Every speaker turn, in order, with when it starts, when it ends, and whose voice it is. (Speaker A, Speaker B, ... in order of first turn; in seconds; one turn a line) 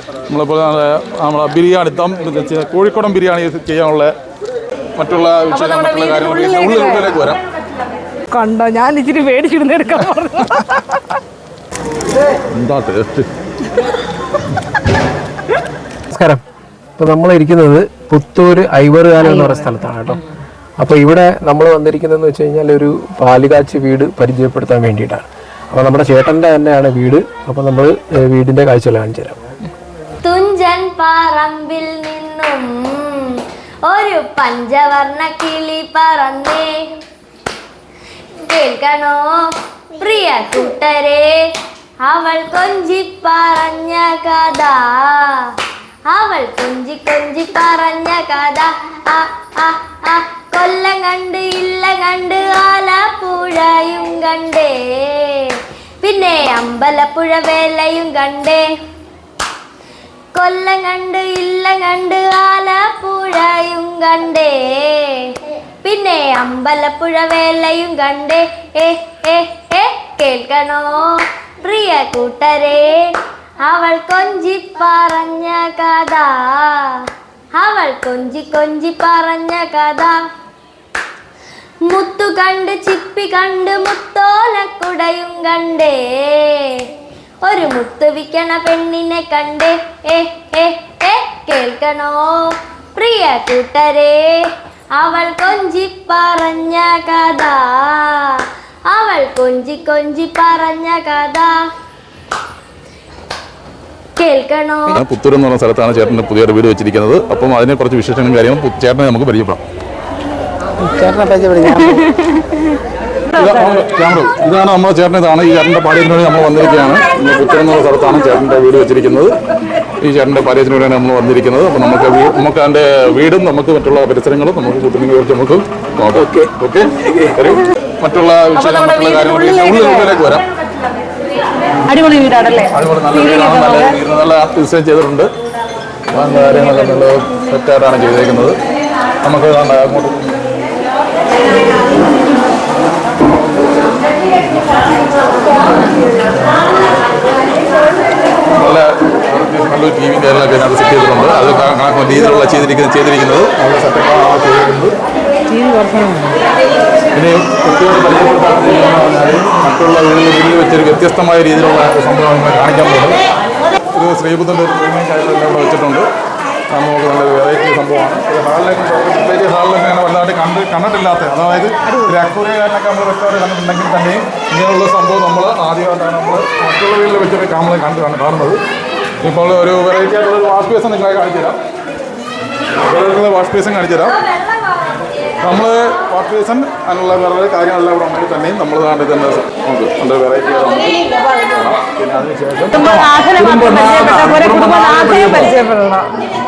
Speaker A: 0.3-4.1
Speaker A: 5.0-7.4
Speaker B: 5.5-7.3
Speaker B: 8.3-11.2
Speaker A: 12.5-13.3
Speaker C: 16.1-16.4
Speaker C: 17.0-20.2
Speaker B: 19.2-20.1
Speaker C: 20.8-29.4
Speaker D: 30.2-37.0
Speaker D: 38.5-39.3
Speaker D: 40.0-41.4
Speaker D: 42.0-45.5
Speaker D: 46.1-58.7
Speaker D: 60.3-73.1
Speaker D: 73.6-80.1
Speaker D: 81.9-86.9
Speaker D: 87.4-94.4
Speaker D: 95.0-101.5
Speaker D: 104.2-105.0
Speaker A: 104.9-109.6
Speaker B: 110.8-112.8
Speaker A: 113.3-119.3
Speaker B: 113.3-113.8
Speaker A: 120.0-130.4
Speaker B: 128.6-130.2
Speaker B: 131.8-134.0
Speaker A: 132.7-135.3
Speaker A: 136.1-138.6
Speaker A: 139.2-140.2
Speaker A: 148.6-154.9
Speaker B: 155.5-156.4
Speaker A: 157.1-163.2
Speaker A: 163.9-166.1
Speaker A: 166.7-178.6
Speaker B: 171.9-172.2
Speaker A: 179.2-181.6
Speaker A: 182.8-184.2
Speaker A: 185.4-195.5
Speaker B: 192.7-196.1